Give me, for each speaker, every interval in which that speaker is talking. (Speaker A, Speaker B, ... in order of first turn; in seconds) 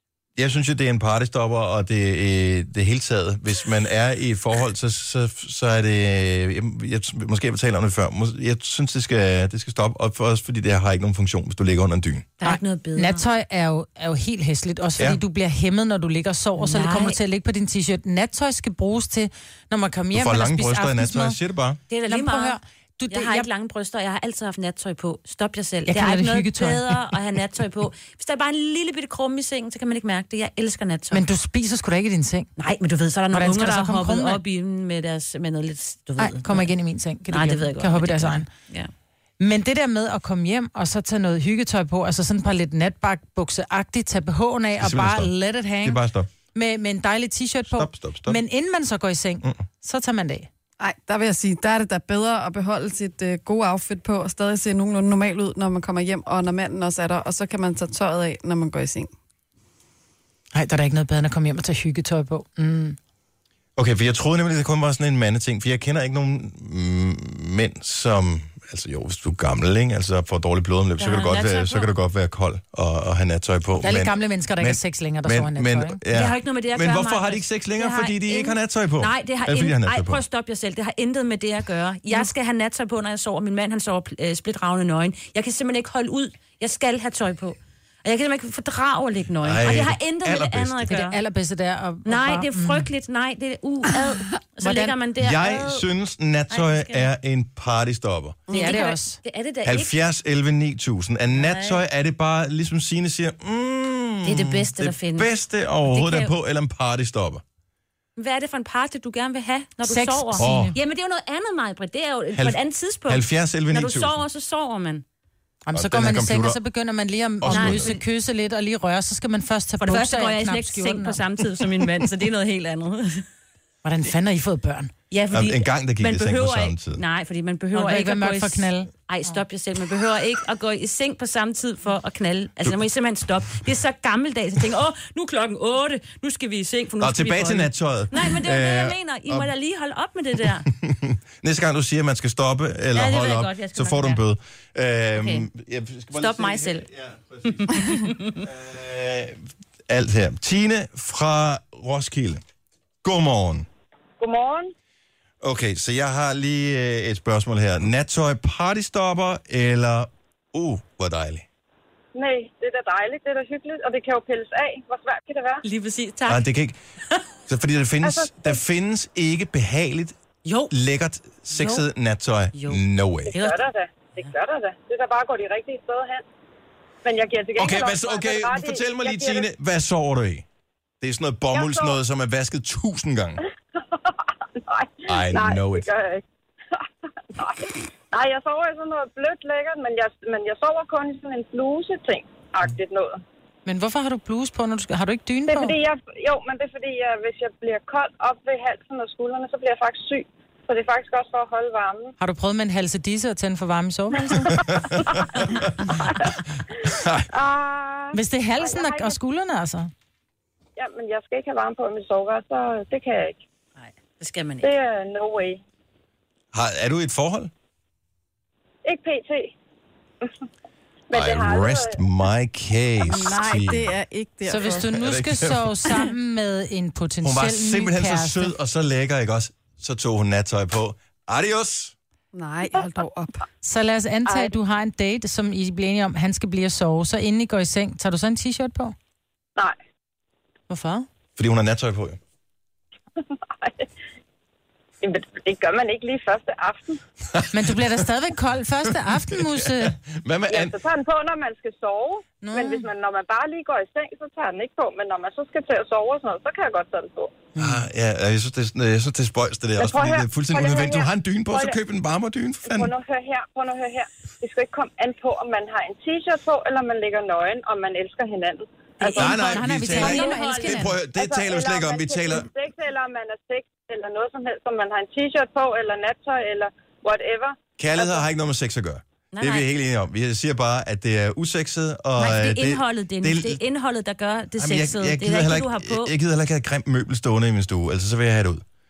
Speaker A: 0.3-12.3, 20.1-21.8, 44.8-46.3, 47.7-48.4, 63.8-80.2, 89.4-90.9, 95.2-98.4, 99.6-107.4, 110.4-110.7, 112.3-114.2, 115.7-116.6, 117.4-117.9, 125.3-127.0, 137.0-139.5, 140.7-152.4, 153.0-153.7, 155.4-161.4, 166.2-166.8, 167.5-170.2, 170.7-173.4, 177.6-180.4, 181.0-183.4, 185.1-185.9, 204.5-206.3, 206.8-207.3, 216.5-217.5, 221.1-223.9, 224.8-225.8, 227.2-231.9, 241.3-242.2, 247.3-248.1, 248.9-250.8, 257.6-262.9, 269.1-272.5, 277.8-283.6, 284.6-288.6
Speaker B: 12.4-13.2, 16.6-17.2, 21.9-22.6, 23.1-31.2, 32.6-36.7, 37.3-38.9, 71.0-71.9, 76.1-91.2, 92.0-95.8, 96.5-97.1, 98.5-99.9, 101.3-101.8, 104.2-105.3, 105.8-106.3, 108.2-115.0, 117.5-118.0, 119.8-123.2, 125.1-140.7, 142.9-144.2, 145.2-145.4, 146.1-146.9, 147.4-148.4, 165.6-166.4, 170.4-170.7, 171.5-171.8, 172.5-173.6, 213.8-214.7, 269.2-271.0, 279.3-279.7, 282.2-286.1
Speaker C: 12.4-21.4, 22.0-23.5, 25.9-26.9, 31.1-32.5, 33.3-34.4, 36.2-38.5, 39.4-46.0, 46.5-50.5, 60.5-63.0, 73.8-76.0, 90.9-92.9, 94.6-95.0, 98.5-99.2, 109.8-110.8, 115.7-121.2, 123.8-124.9, 127.7-129.4, 193.7-195.8, 202.2-204.5, 208.1-209.9, 224.5-228.5, 233.6-238.9, 240.7-241.1, 247.5-249.9, 252.4-252.9, 269.0-270.9
Speaker D: 50.8-59.1, 98.5-98.8, 223.0-224.9, 232.3-233.4
Speaker E: 154.2-154.7, 162.1-165.6, 168.0-168.6, 173.2-176.2, 177.0-179.5, 181.5-182.0, 184.1-186.2, 187.3-193.2, 195.5-202.1, 204.1-205.4, 206.0-206.3, 207.3-209.2, 210.8-213.4, 214.6-215.6, 218.8-219.5, 221.1-221.9, 234.3-234.5, 243.2-243.9, 245.0-247.0, 250.5-257.5, 259.8-261.8, 262.6-269.2, 271.1-278.2